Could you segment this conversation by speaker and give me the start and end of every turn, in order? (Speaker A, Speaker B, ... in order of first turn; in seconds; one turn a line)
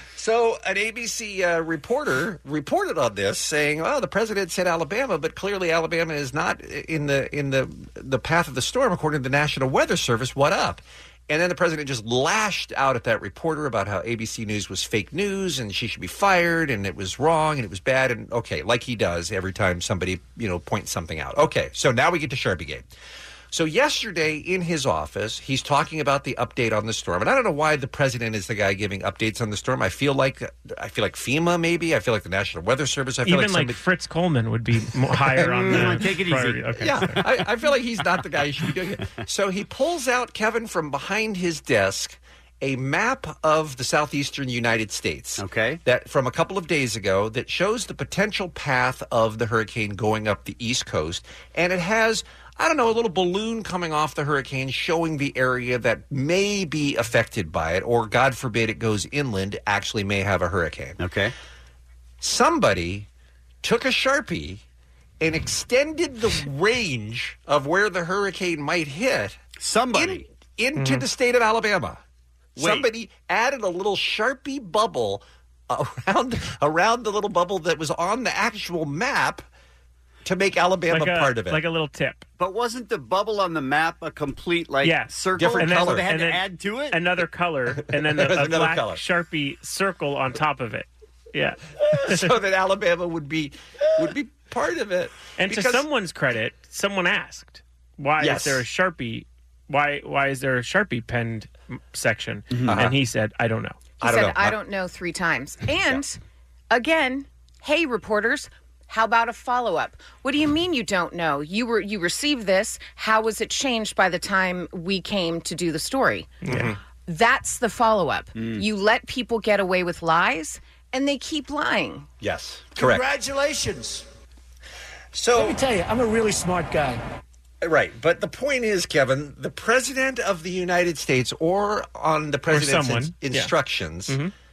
Speaker A: 0.1-22.9
Speaker A: 23.5-33.8
Speaker B: 33.2-37.2
Speaker A: 35.3-36.0
Speaker C: 35.4-36.9
Speaker A: 36.8-61.0
Speaker C: 45.4-45.8
Speaker C: 61.0-61.3
Speaker A: 62.2-63.1
Speaker A: 63.6-64.6
Speaker A: 65.2-69.4
Speaker C: 69.6-70.2
Speaker A: 69.9-72.0
Speaker B: 70.8-71.0
Speaker A: 72.5-79.5
Speaker C: 72.6-72.8
Speaker A: 80.2-81.6
Speaker B: 80.9-82.2
Speaker C: 82.4-87.0
Speaker B: 84.8-92.3
Speaker A: 85.4-86.1
Speaker A: 88.0-89.0
Speaker A: 91.8-95.8
Speaker B: 95.4-103.8
Speaker A: 98.2-98.6
Speaker C: 102.5-102.8
Speaker A: 102.7-103.0
Speaker D: 104.0-106.2
Speaker A: 104.0-104.5
Speaker D: 106.7-116.3
Speaker B: 116.4-116.7
Speaker A: 116.5-116.8
Speaker D: 117.1-122.1
Speaker C: 118.4-118.6
Speaker A: 122.2-123.0
Speaker E: 122.8-124.0
Speaker A: 125.1-125.6
Speaker E: 125.3-127.0
Speaker A: 127.6-134.2
Speaker B: 132.5-133.5
Speaker B: 134.1-134.3